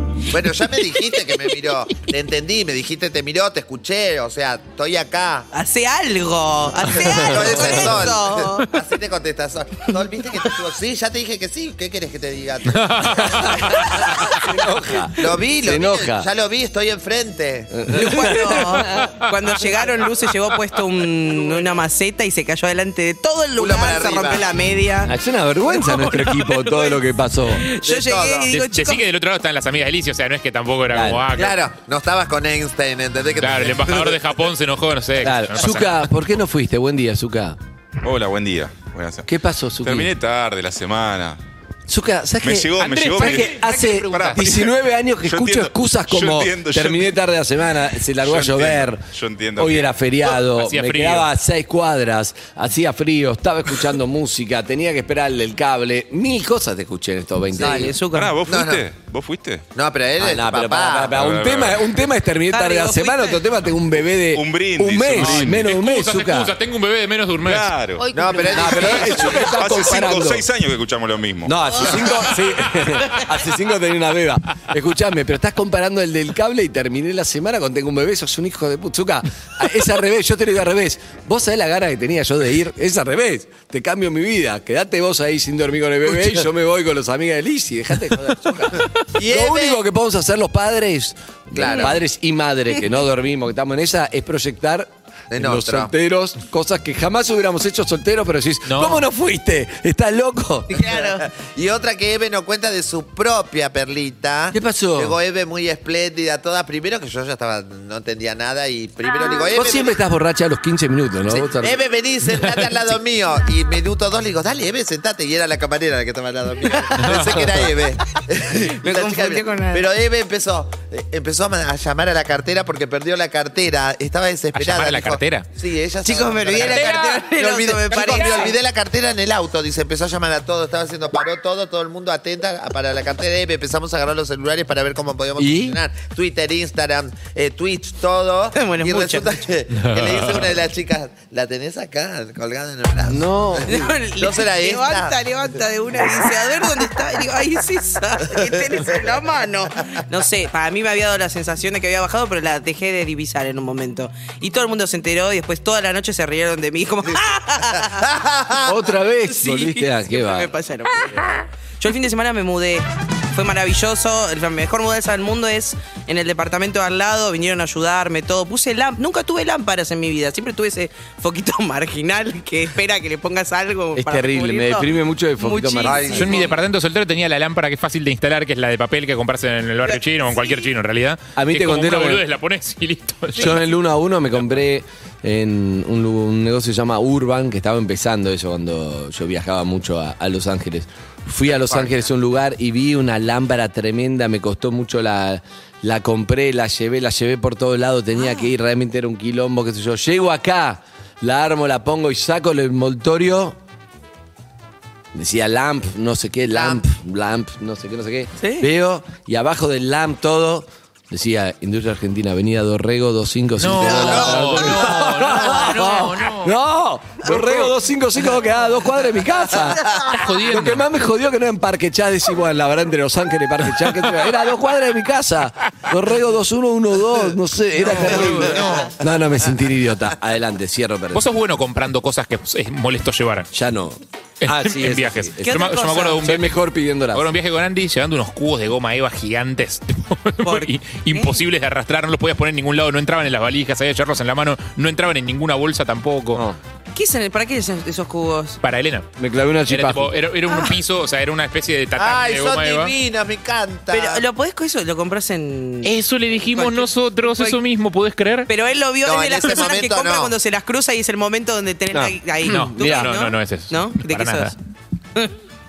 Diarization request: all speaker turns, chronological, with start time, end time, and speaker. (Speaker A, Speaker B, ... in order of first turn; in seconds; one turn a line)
Speaker A: 0.3-5.5
Speaker B: 5.5-8.7
Speaker A: 6.9-14.2
Speaker C: 7.1-8.1
Speaker D: 12.7-13.2
Speaker C: 13.4-16.3
Speaker A: 15.2-18.3
Speaker C: 17.7-19.1
Speaker B: 17.9-25.1
Speaker D: 19.0-19.3
Speaker A: 23.6-24.5
Speaker C: 25.1-27.7
Speaker B: 25.7-27.0
Speaker B: 27.5-29.0
Speaker A: 27.8-28.5
Speaker D: 28.5-31.6
Speaker C: 30.9-31.3
Speaker A: 31.4-34.3
Speaker D: 33.4-36.1
Speaker C: 35.2-37.6
Speaker E: 38.0-39.3
Speaker C: 39.2-40.1
Speaker E: 39.8-41.4
Speaker C: 41.9-49.1
Speaker E: 42.4-47.2
Speaker D: 42.8-44.5
Speaker E: 48.2-50.0
Speaker C: 49.6-58.0
Speaker D: 50.5-51.3
Speaker B: 57.5-58.3
Speaker A: 57.6-57.9
Speaker E: 58.0-59.7
Speaker A: 58.5-58.8
Speaker A: 59.7-61.2
Speaker C: 60.2-66.5
Speaker E: 61.1-61.9
Speaker B: 62.5-63.4
Speaker E: 64.3-65.8
Speaker D: 65.1-67.7
Speaker E: 67.4-68.1
Speaker A: 68.1-69.5
Speaker C: 68.5-70.5
Speaker E: 69.3-71.9
Speaker C: 71.5-100.8
Speaker A: 89.1-89.8
Speaker A: 91.5-92.0
Speaker B: 91.6-91.9
Speaker A: 95.3-95.9
Speaker D: 98.7-99.0
Speaker A: 100.7-110.0
Speaker B: 100.8-101.2
Speaker C: 104.5-105.2
Speaker C: 109.5-111.8
Speaker A: 111.3-145.2
Speaker D: 117.0-117.2
Speaker B: 118.5-119.9
Speaker D: 124.5-125.5
Speaker B: 126.0-128.5
Speaker D: 126.6-127.3
Speaker D: 127.9-128.5
Speaker C: 135.4-135.8
Speaker B: 138.6-139.4
Speaker D: 139.8-140.6
Speaker C: 143.1-143.9
Speaker B: 143.7-158.0
Speaker A: 157.8-158.8
Speaker C: 158.6-160.5
Speaker B: 159.3-161.3
Speaker B: 161.8-176.4
Speaker C: 174.0-176.4
Speaker A: 175.8-176.6
Speaker D: 176.1-183.6
Speaker C: 181.3-182.2
Speaker C: 183.3-203.6
Speaker A: 191.5-192.1
Speaker B: 198.2-198.5
Speaker C: 205.1-231.2
Speaker A: 206.5-206.8
Speaker B: 208.4-208.7
Speaker D: 213.6-216.5
Speaker A: 213.8-214.8
Speaker D: 220.1-220.8
Speaker D: 227.9-228.9
Speaker B: 228.2-228.8
Speaker D: 231.1-233.5
Speaker C: 233.5-237.3
Speaker D: 234.4-236.6
Speaker B: 235.4-236.2
Speaker D: 237.1-246.4
Speaker B: 240.4-241.4
Speaker C: 246.3-246.6
Speaker B: 246.9-248.6
Speaker D: 248.6-249.1
Speaker C: 249.2-250.2
Speaker D: 249.7-252.9
Speaker B: 250.5-250.7
Speaker A: 252.0-254.2
Speaker B: 253.9-255.9
Speaker D: 255.8-258.5
Speaker B: 256.6-257.6
Speaker B: 258.5-264.5
Speaker A: 259.0-260.3
Speaker C: 261.9-263.1
Speaker D: 262.4-264.6